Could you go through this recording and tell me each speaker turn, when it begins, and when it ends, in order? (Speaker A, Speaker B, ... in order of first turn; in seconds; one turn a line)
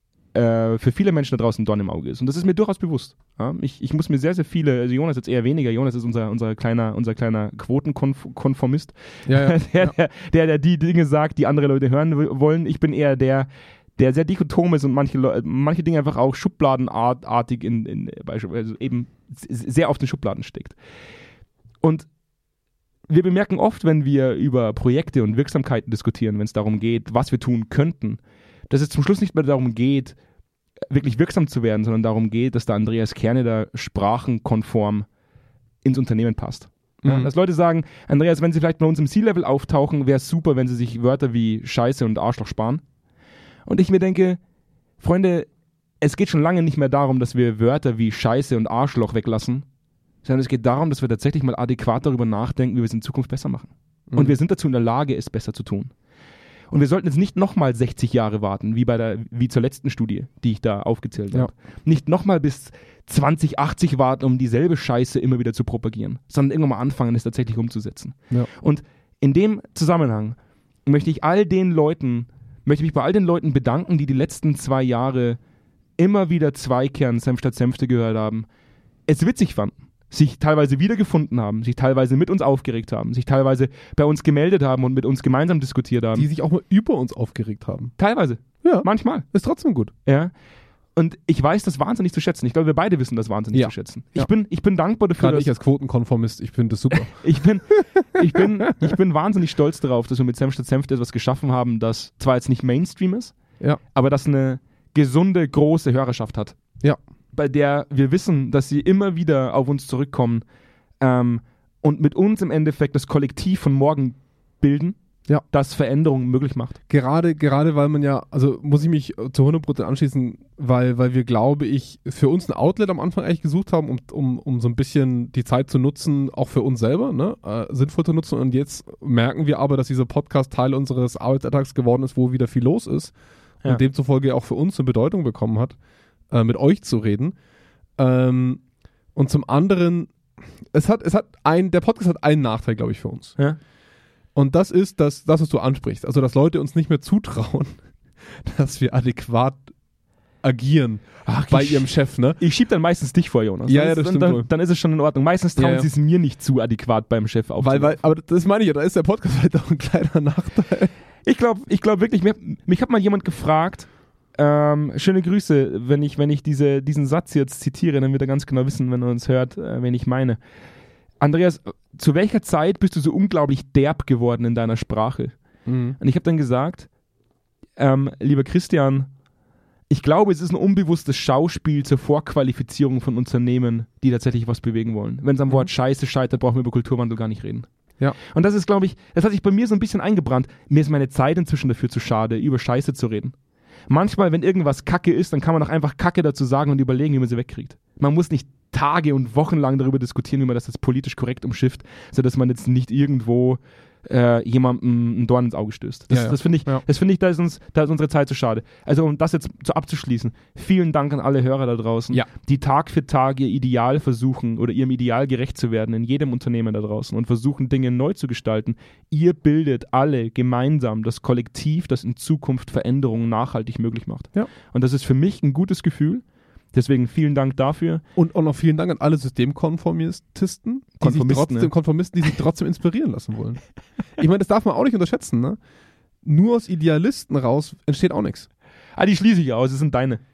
Speaker A: 0.3-20.8
Speaker B: 9.3-9.9
Speaker A: 21.8-22.1
Speaker A: 23.1-30.2
Speaker A: 30.9-35.1
Speaker A: 35.8-42.8
Speaker B: 37.0-37.3
Speaker A: 43.7-44.4
Speaker A: 45.0-45.5
Speaker A: 46.0-49.6
Speaker A: 50.2-55.9
Speaker B: 54.1-54.4
Speaker A: 56.7-75.4
Speaker A: 76.0-78.5
Speaker A: 79.1-86.3
Speaker B: 86.2-87.9
Speaker A: 88.0-89.3
Speaker B: 88.6-89.9
Speaker A: 90.1-90.3
Speaker A: 91.0-95.5
Speaker B: 93.5-94.3
Speaker B: 95.2-97.3
Speaker A: 96.9-103.4
Speaker B: 98.2-98.5
Speaker A: 103.9-106.6
Speaker A: 107.3-110.4
Speaker A: 111.0-115.0
Speaker A: 115.5-116.8
Speaker B: 116.9-133.1
Speaker B: 133.7-135.8
Speaker B: 136.3-137.4
Speaker B: 138.0-138.6
Speaker B: 139.2-140.1
Speaker B: 140.7-143.4
Speaker B: 144.3-147.8
Speaker B: 148.3-149.7
Speaker B: 150.4-152.4
Speaker A: 151.2-157.9
Speaker B: 153.7-154.5
Speaker B: 155.6-155.9
Speaker B: 157.6-160.9
Speaker A: 161.2-170.4
Speaker A: 171.2-175.3
Speaker B: 175.7-176.0
Speaker A: 176.0-176.9
Speaker A: 177.8-179.1
Speaker A: 179.9-193.3
Speaker A: 193.9-228.0
Speaker B: 206.1-206.8
Speaker B: 228.2-233.6
Speaker A: 231.0-231.7
Speaker B: 234.2-235.6
Speaker B: 236.2-238.5
Speaker A: 239.0-240.2